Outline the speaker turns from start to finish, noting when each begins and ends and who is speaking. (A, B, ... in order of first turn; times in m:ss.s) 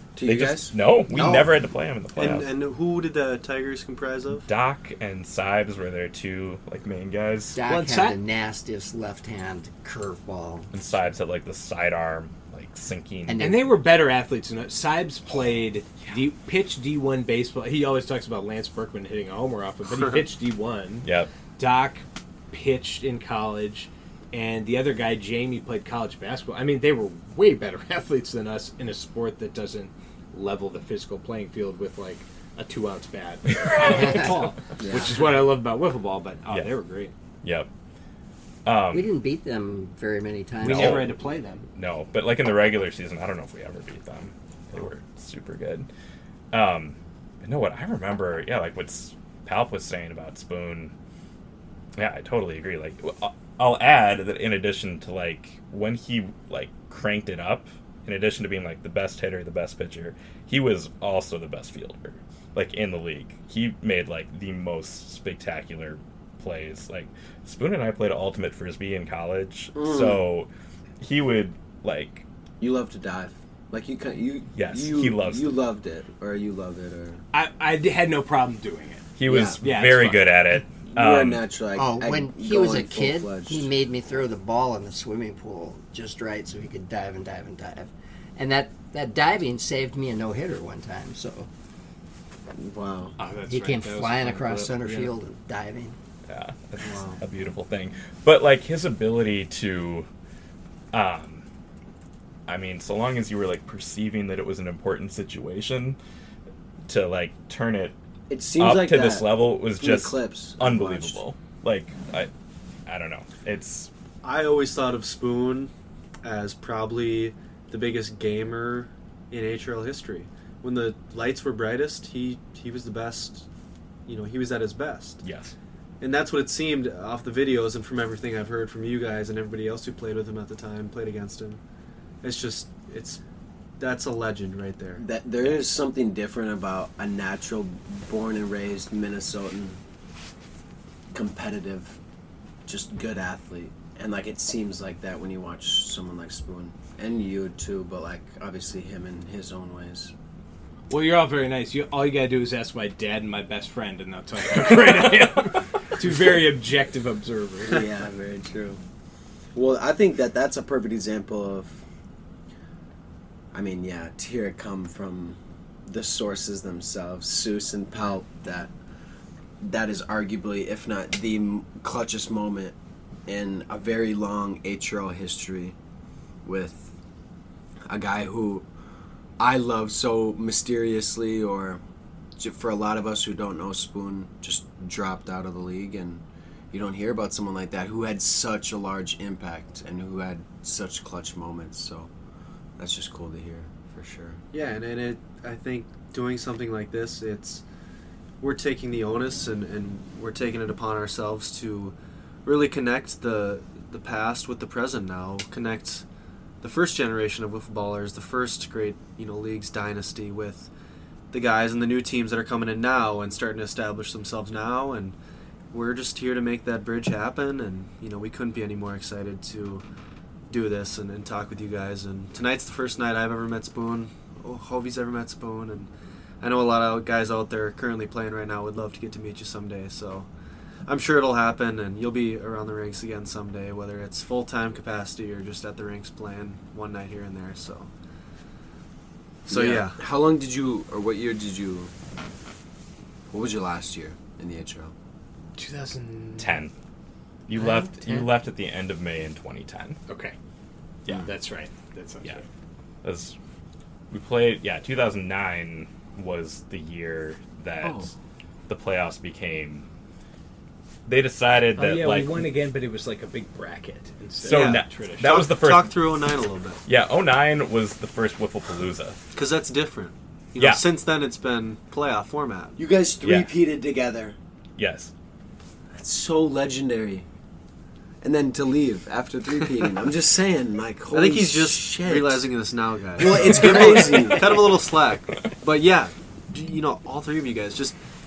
0:00.2-0:00.7 A
0:00.2-0:02.5 B
0:01.1-0:01.6 C
0:02.2-0:04.5 D
0:04.5-0:07.6 B
0:07.5-0:10.7 C
0:07.6-0:08.2 E
0:10.7-0:13.5 B
0:13.3-0:13.7 C
0:13.4-0:37.1 E
0:19.9-0:20.2 D
0:21.0-0:21.3 B
0:33.5-0:34.3 B
0:34.0-0:34.3 C
0:34.8-0:35.2 A
0:37.4-0:37.7 B
0:38.6-0:39.1 B
0:38.9-0:41.1 C
0:40.6-0:41.6 E
0:40.6-0:41.1 B
0:41.8-0:45.9 B
0:46.5-0:50.9 B
0:52.0-1:10.5 B
1:09.7-1:10.2 A
1:11.0-1:12.2 B
1:12.6-1:17.2 A
1:14.5-1:15.5 B
1:17.3-1:19.1 E
1:19.2-1:21.4 B
1:19.3-1:19.6 A
1:19.6-1:20.3 E
1:20.9-1:23.7 A
1:21.8-1:31.5 C
1:32.5-1:33.2 A
1:33.2-1:35.1 E
1:33.5-1:36.0 C
1:36.3-1:40.0 B
1:36.8-1:37.2 D
1:40.9-1:41.4 B
1:42.5-1:46.0 B
1:46.9-1:47.9 B
1:48.3-1:51.2 A
1:48.6-1:52.3 B
1:52.8-1:53.9 B
1:54.2-1:55.7 D
1:56.2-2:03.4 D
2:04.0-2:05.2 D
2:05.2-2:05.5 B
2:06.0-2:11.6 D
2:12.2-2:13.2 D
2:13.8-2:15.0 D
2:15.0-2:19.8 A
2:21.1-2:22.0 A
2:22.6-2:30.1 A
2:30.9-2:37.8 E
2:34.5-2:35.6 B
2:37.7-2:38.8 A
2:39.5-2:41.8 A
2:43.5-2:48.7 A
2:49.6-2:52.7 A
2:53.3-2:55.8 A
2:56.4-2:56.9 A
2:57.8-2:58.7 A
2:59.4-3:01.8 A
3:02.4-3:12.1 A
3:12.8-3:14.4 A
3:14.5-3:17.6 D
3:18.4-3:26.0 D
3:26.6-3:30.7 D
3:31.3-3:35.2 D
3:35.7-3:39.8 D
3:40.5-3:45.9 D
3:46.4-3:50.3 D
3:50.8-3:57.9 D
3:59.5-4:01.9 A
3:59.5-4:00.0 D
4:03.3-4:04.9 A
4:05.6-4:06.6 E
4:06.4-4:06.7 B
4:07.5-4:10.0 B
4:07.6-4:08.2 E
4:10.1-4:10.4 E
4:11.0-4:11.3 B
4:11.2-4:12.4 E
4:13.0-4:13.4 B
4:14.1-4:18.1 B
4:17.8-4:18.1 A
4:18.7-4:19.8 B
4:21.1-4:22.5 B
4:21.8-4:25.3 E
4:24.4-4:25.9 B
4:24.4-4:26.8 D
4:26.8-4:29.2 B
4:29.3-4:32.8 D
4:32.8-4:34.4 A
4:33.2-4:33.5 B
4:34.8-4:35.1 B
4:35.9-4:37.2 A
4:38.2-4:42.5 A
4:41.1-4:48.0 D
4:43.2-4:44.8 A